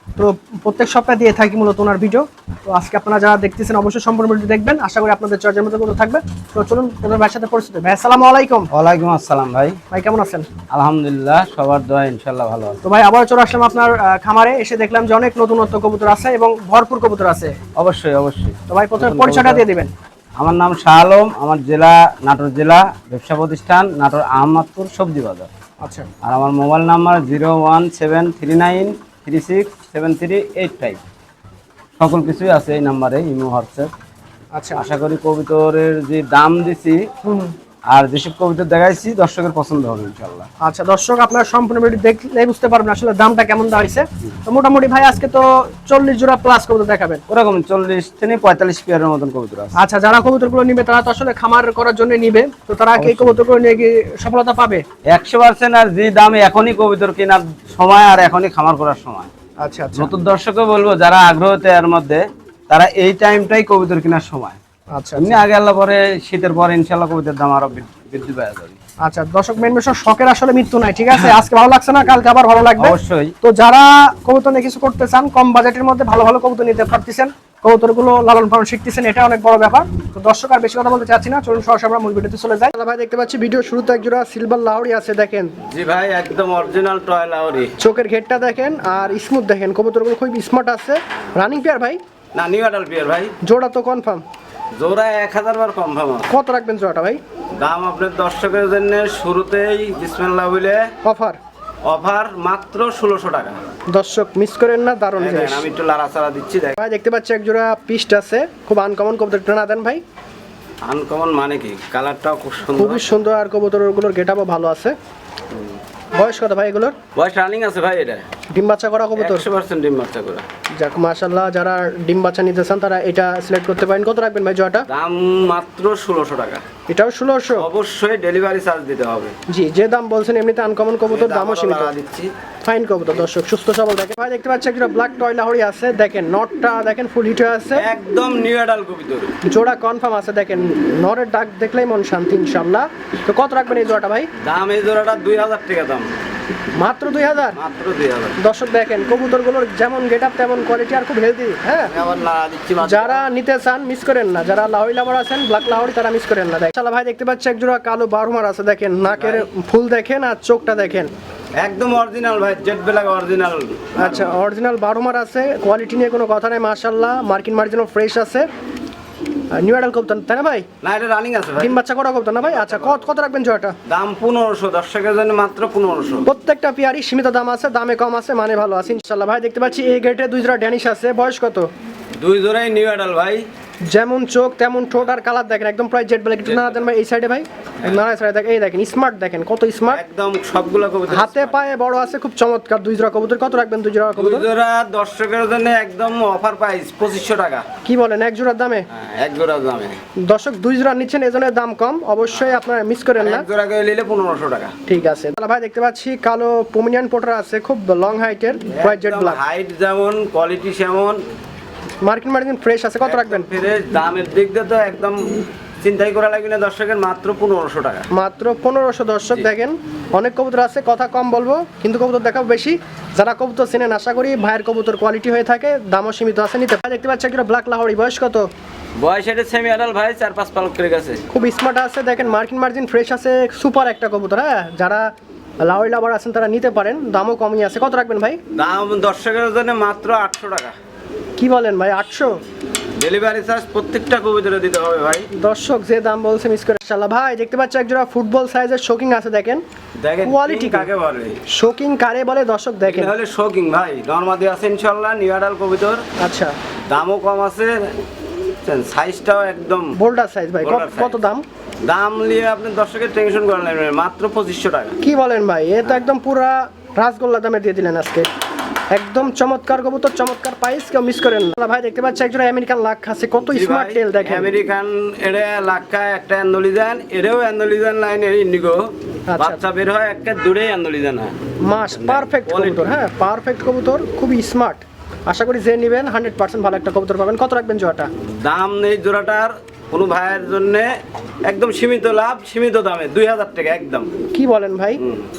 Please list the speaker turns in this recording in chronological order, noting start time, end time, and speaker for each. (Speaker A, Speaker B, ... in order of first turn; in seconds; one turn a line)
Speaker A: 0.1-8.7
Speaker B: 8.7-9.8
Speaker A: 9.9-10.5
Speaker B: 10.7-12.8
Speaker A: 12.8-17.6
Speaker B: 17.7-19.6
Speaker A: 18.7-19.9
Speaker B: 20.4-25.5
Speaker A: 25.8-26.1
Speaker B: 26.2-31.0
Speaker B: 32.0-33.9
Speaker A: 34.5-34.9
Speaker B: 34.7-37.1
Speaker A: 37.2-37.5
Speaker B: 37.9-40.5
Speaker A: 40.6-47.2
Speaker B: 47.3-49.8
Speaker A: 49.7-54.8
Speaker B: 53.0-53.4
Speaker B: 55.1-59.3
Speaker A: 59.6-60.1
Speaker B: 60.0-64.6
Speaker A: 64.9-65.4
Speaker B: 65.2-68.8
Speaker A: 69.0-85.5
Speaker B: 72.8-73.3
Speaker B: 85.7-87.7
Speaker A: 87.8-92.0
Speaker B: 92.3-93.3
Speaker A: 93.4-94.2
Speaker B: 94.8-96.3
Speaker A: 96.3-97.2
Speaker B: 97.6-100.9
Speaker A: 101.0-101.4
Speaker B: 101.8-103.6
Speaker A: 103.9-105.7
Speaker B: 105.2-106.8
Speaker A: 106.8-110.0
Speaker B: 110.8-113.1
Speaker A: 112.7-114.9
Speaker A: 116.2-117.0
Speaker B: 117.1-118.2
Speaker A: 118.5-119.5
Speaker B: 119.2-120.5
Speaker A: 120.8-124.9
Speaker B: 124.9-126.6
Speaker A: 126.9-127.7
Speaker B: 127.5-129.3
Speaker A: 129.5-131.9
Speaker B: 131.1-132.3
Speaker A: 132.6-137.9
Speaker B: 137.7-139.3
Speaker A: 139.4-144.3
Speaker B: 144.4-146.1
Speaker A: 146.8-147.6
Speaker B: 147.5-148.4
Speaker A: 148.4-151.9
Speaker B: 151.8-153.3
Speaker A: 152.8-161.1
Speaker B: 159.0-159.5
Speaker B: 161.6-164.3
Speaker A: 163.9-168.5
Speaker A: 169.5-170.7
Speaker B: 170.8-171.8
Speaker A: 171.6-173.7
Speaker B: 172.3-173.1
Speaker B: 173.9-176.2
Speaker A: 176.2-181.7
Speaker B: 182.2-183.4
Speaker A: 183.9-190.0
Speaker B: 186.4-186.8
Speaker B: 189.9-191.6
Speaker A: 191.1-194.5
Speaker B: 194.2-197.7
Speaker A: 197.8-198.9
Speaker B: 198.9-200.0
Speaker A: 200.2-203.5
Speaker B: 203.2-204.8
Speaker A: 204.8-209.4
Speaker B: 208.7-211.2
Speaker A: 212.0-213.5
Speaker B: 213.0-215.2
Speaker B: 215.8-218.1
Speaker A: 218.1-228.5
Speaker B: 229.0-231.2
Speaker A: 231.3-235.1
Speaker A: 235.6-238.4
Speaker B: 238.5-240.7
Speaker A: 241.4-242.4
Speaker B: 243.0-245.3
Speaker A: 245.4-249.6
Speaker B: 250.0-251.4
Speaker A: 250.2-250.9
Speaker A: 251.5-253.1
Speaker B: 252.8-256.0
Speaker A: 256.2-256.5
Speaker B: 256.9-257.9
Speaker B: 258.6-260.0
Speaker A: 259.9-261.4
Speaker B: 260.6-261.2
Speaker B: 261.8-264.9
Speaker A: 265.0-268.3
Speaker A: 268.9-274.5
Speaker B: 273.4-281.3
Speaker A: 279.3-279.6
Speaker A: 281.6-288.1
Speaker B: 281.9-283.0
Speaker B: 288.2-290.9
Speaker B: 291.4-294.1
Speaker A: 294.3-295.0
Speaker B: 295.0-295.2